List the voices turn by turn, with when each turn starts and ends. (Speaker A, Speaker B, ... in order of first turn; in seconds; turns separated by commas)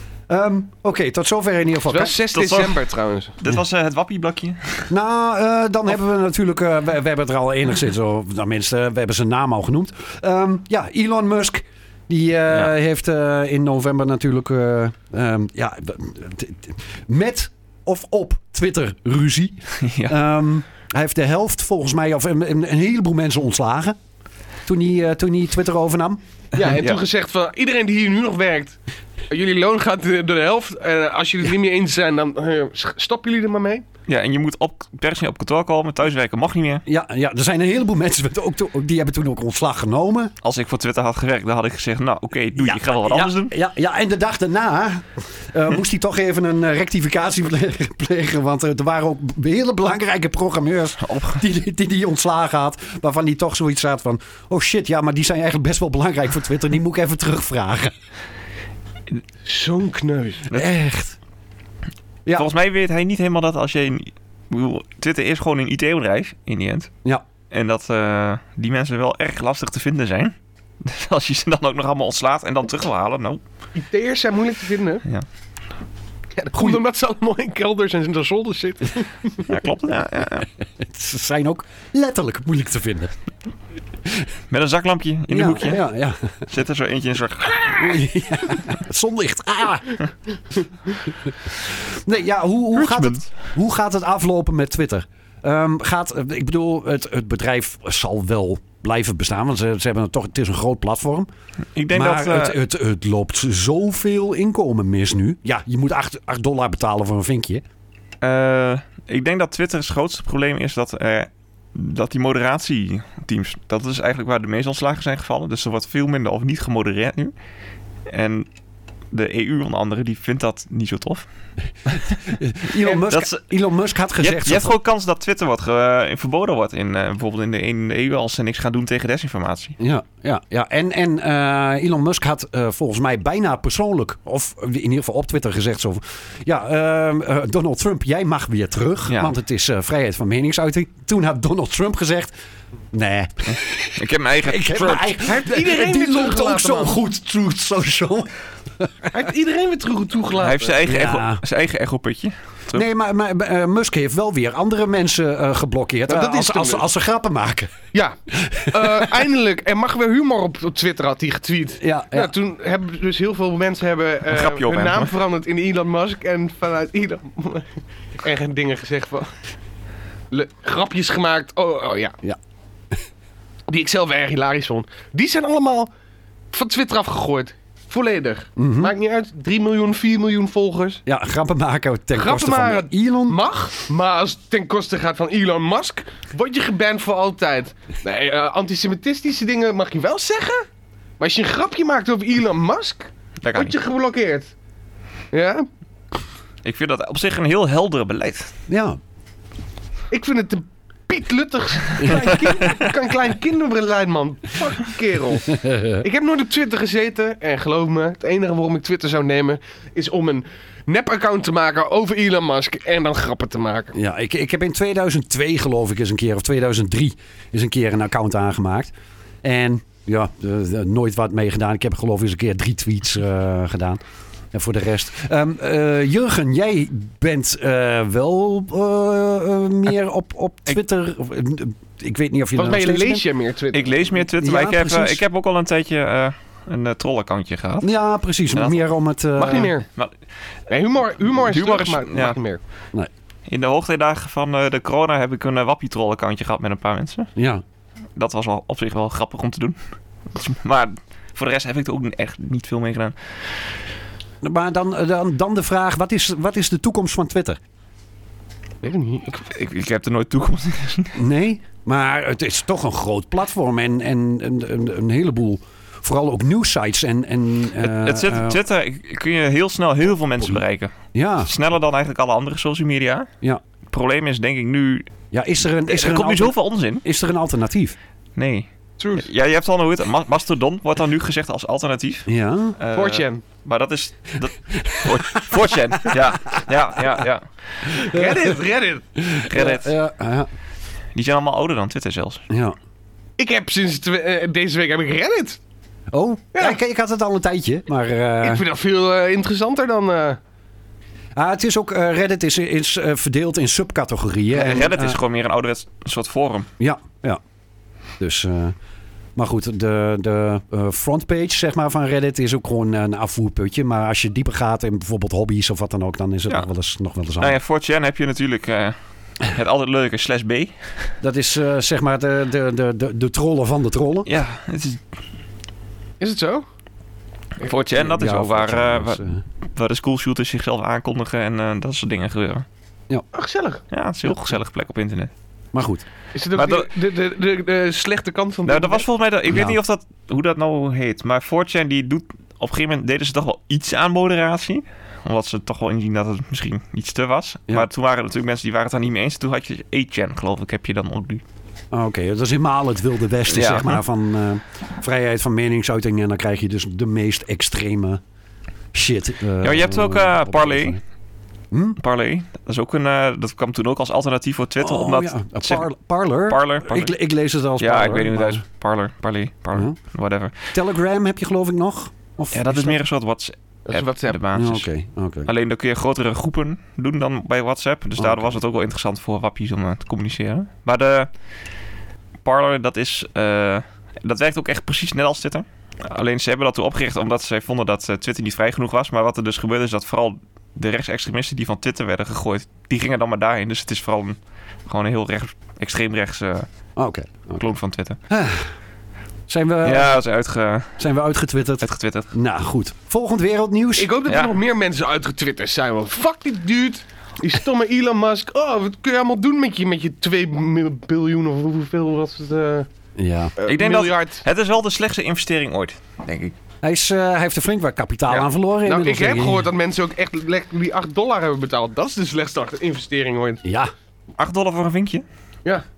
Speaker A: 0.3-2.2, Speaker B: 1.9-3.4, Speaker C: 2.3-2.8, Speaker C: 3.4-4.9, Speaker A: 4.9-24.0, Speaker C: 19.8-20.2, Speaker A: 24.7-26.2, Speaker B: 26.5-28.8, Speaker C: 26.6-27.0, Speaker B: 29.3-33.9, Speaker C: 34.1-36.8, Speaker A: 36.9-40.3, Speaker C: 40.4-43.5, Speaker A: 42.6-57.9, Speaker C: 51.0-51.4, Speaker B: 59.5-60.5, Speaker A: 60.5-61.2, Speaker C: 62.4-66.9, Speaker C: 67.5-73.4, Speaker B: 73.8-75.0, Speaker B: 76.3-79.5, Speaker C: 79.5-80.5, Speaker A: 80.8-83.1, Speaker C: 84.5-85.8, Speaker A: 85.3-86.5, Speaker C: 86.5-88.0, Speaker A: 87.7-90.0, Speaker A: 91.6-101.3, Speaker C: 92.7-93.3, Speaker C: 101.8-102.6, Speaker A: 101.9-107.6, Speaker C: 108.2-117.3, Speaker C: 118.1-118.5, Speaker C: 119.1-121.2, Speaker C: 121.9-122.2, Speaker A: 122.2-124.7, Speaker C: 122.9-123.4, Speaker C: 124.2-129.8, Speaker A: 129.8-142.3, Speaker C: 139.1-139.3, Speaker A: 142.9-148.9, Speaker C: 143.5-145.2, Speaker B: 145.2-147.0, Speaker B: 149.1-150.8, Speaker C: 150.4-152.8, Speaker A: 150.8-151.4, Speaker A: 152.7-157.7, Speaker B: 156.1-156.8, Speaker A: 158.3-159.2, Speaker B: 158.7-169.3, Speaker A: 161.8-162.3, Speaker C: 164.3-165.1, Speaker B: 170.3-172.2, Speaker B: 173.7-175.9, Speaker B: 176.5-181.0, Speaker A: 178.6-178.9, Speaker A: 181.1-183.4, Speaker B: 182.2-190.7, Speaker B: 191.2-194.5, Speaker C: 193.4-193.8, Speaker B: 195.3-195.7, Speaker C: 196.6-198.5, Speaker A: 198.7-199.0, Speaker B: 200.1-214.0, Speaker A: 202.0-202.4, Speaker A: 205.5-206.0, Speaker A: 213.9-224.0, Speaker A: 224.5-233.2, Speaker B: 232.6-234.1, Speaker C: 233.7-237.9, Speaker A: 234.4-235.2, Speaker A: 237.8-239.7, Speaker C: 238.5-238.8, Speaker B: 239.4-239.9, Speaker B: 240.7-242.6, Speaker C: 241.5-242.4, Speaker C: 243.5-247.3, Speaker A: 247.4-247.6, Speaker C: 248.2-249.8, Speaker C: 250.3-253.2, Speaker A: 254.4-257.6, Speaker B: 258.8-259.5, Speaker C: 259.4-261.1, Speaker A: 261.1-268.6, Speaker C: 267.8-273.3, Speaker A: 271.1-271.5, Speaker C: 273.9-275.1, Speaker A: 275.3-278.0, Speaker C: 275.9-277.0, Speaker C: 278.4-287.5, Speaker B: 279.0-279.3, Speaker A: 282.3-282.8, Speaker B: 282.9-283.4, Speaker A: 284.7-286.6, Speaker B: 288.0-289.1, Speaker A: 288.0-288.5, Speaker A: 289.2-290.5, Speaker C: 289.4-289.9, Speaker C: 291.1-292.4, Speaker A: 292.5-292.8, Speaker B: 293.4-295.6, Speaker A: 296.1-298.6, Speaker B: 298.4-300.4, Speaker A: 301.4-305.2, Speaker C: 304.5-306.7, Speaker A: 306.8-307.4, Speaker A: 308.2-308.8, Speaker A: 309.4-317.6, Speaker C: 317.4-320.7, Speaker A: 321.2-324.3, Speaker C: 324.3-325.0, Speaker B: 326.2-326.7, Speaker C: 327.6-332.7, Speaker A: 328.0-329.4, Speaker B: 333.3-333.8, Speaker C: 333.9-335.3, Speaker A: 335.7-336.0, Speaker B: 336.3-339.1, Speaker C: 336.5-336.9, Speaker C: 338.7-351.4, Speaker A: 339.5-339.8, Speaker A: 351.9-358.2, Speaker C: 353.5-354.0, Speaker A: 358.9-361.0, Speaker C: 359.6-361.0, Speaker A: 361.7-362.0, Speaker C: 362.0-365.9, Speaker A: 364.8-368.6, Speaker C: 366.5-367.1, Speaker C: 367.8-370.6, Speaker A: 370.7-373.0, Speaker C: 372.5-374.9, Speaker B: 373.9-374.4, Speaker A: 374.5-375.5, Speaker C: 375.5-381.3, Speaker A: 378.2-378.6, Speaker C: 382.4-396.7, Speaker A: 397.0-397.6, Speaker C: 397.6-398.2, Speaker A: 398.3-398.7, Speaker A: 399.5-400.2, Speaker C: 399.8-401.0, Speaker A: 401.0-404.1, Speaker C: 401.8-402.3, Speaker B: 404.0-412.9, Speaker C: 404.3-404.6, Speaker A: 413.2-413.5, Speaker B: 413.6-414.4, Speaker C: 413.7-416.5, Speaker A: 416.8-419.7, Speaker B: 418.3-423.6, Speaker A: 423.6-423.9, Speaker C: 424.4-425.2